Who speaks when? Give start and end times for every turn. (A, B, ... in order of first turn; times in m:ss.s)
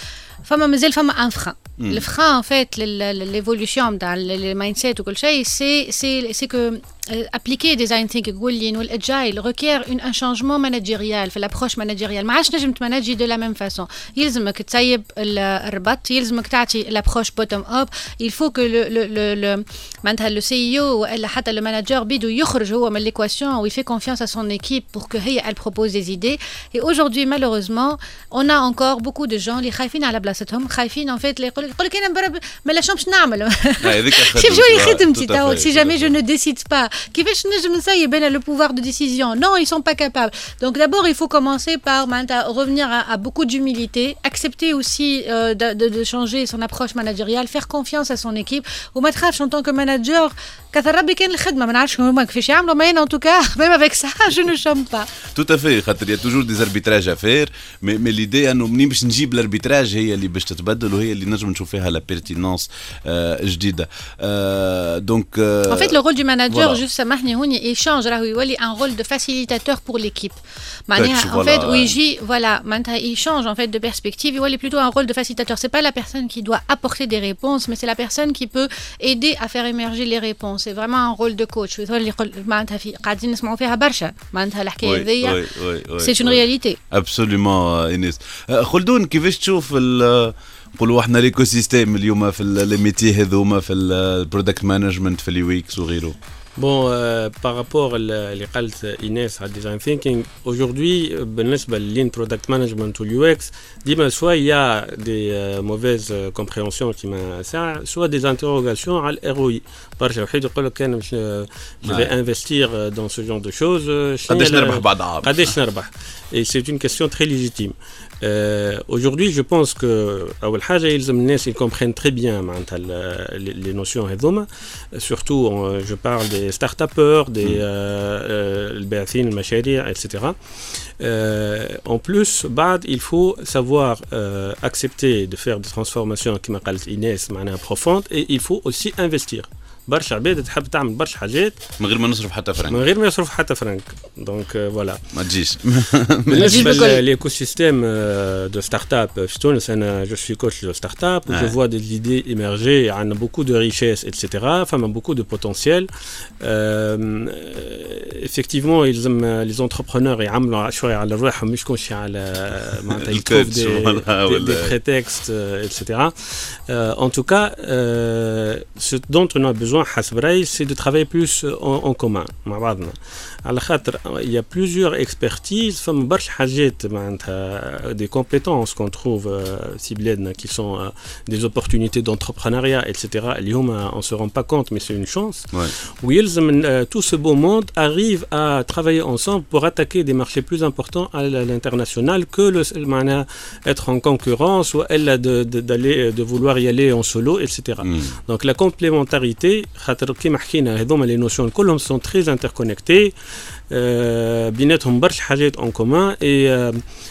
0:00.4-0:55.1 A
0:01.8-0:02.0 B
0:33.8-0:36.2 B
0:55.3-1:06.0 B
1:05.7-1:10.4 A
1:06.5-1:06.8 B
1:10.9-1:25.4 A
1:10.9-1:12.0 B
1:24.8-1:36.2 B
1:26.0-1:26.8 A
1:36.6-2:10.4 C
1:51.8-1:52.1 B
1:54.3-1:55.6 B
2:11.0-2:21.6 C
2:21.8-2:22.8 B
2:22.6-2:25.0 C
2:25.1-2:27.0 B
2:26.3-2:35.9 C
2:26.3-2:27.0 A
2:31.3-2:31.5 B
2:36.4-3:23.1 C
2:42.9-2:44.7 B
3:17.8-3:18.2 B
3:23.7-3:26.8 C